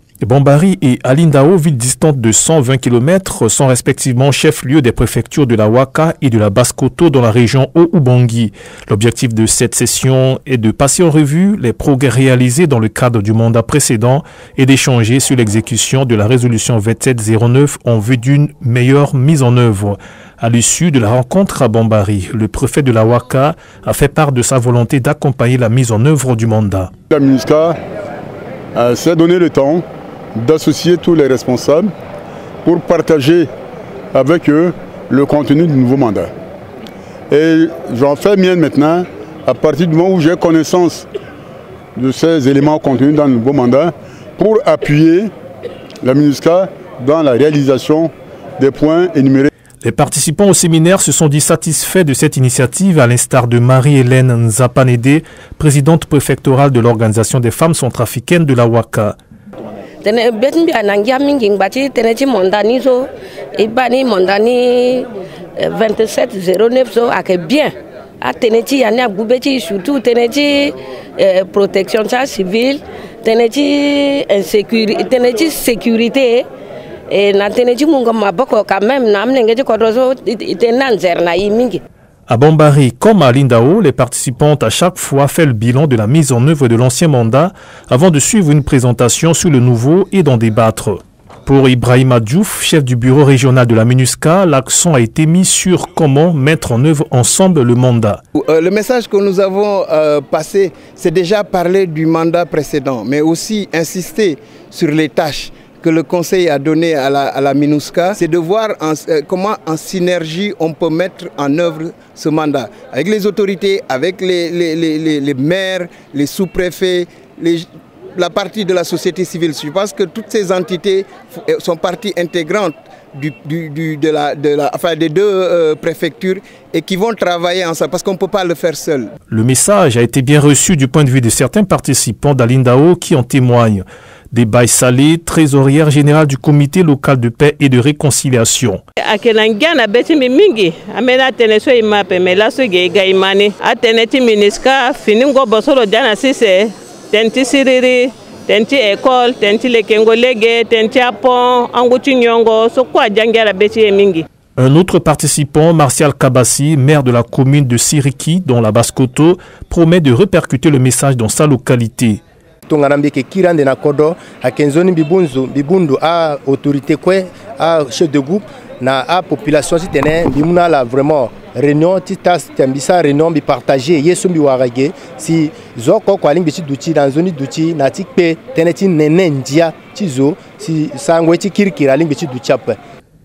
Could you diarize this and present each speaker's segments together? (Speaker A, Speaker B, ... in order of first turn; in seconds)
Speaker A: 0.2-26.9, 49.8-59.1, 82.3-98.2, 129.3-138.8, 154.6-162.2
Speaker B: 27.1-27.8, 28.7-31.9, 32.6-33.5, 34.1-36.3, 37.3-41.1, 42.0-45.3, 46.0-49.5
Speaker C: 60.0-76.5, 77.1-81.8
Speaker D: 98.4-129.1
Speaker E: 139.0-154.2
Speaker F: 162.7-182.8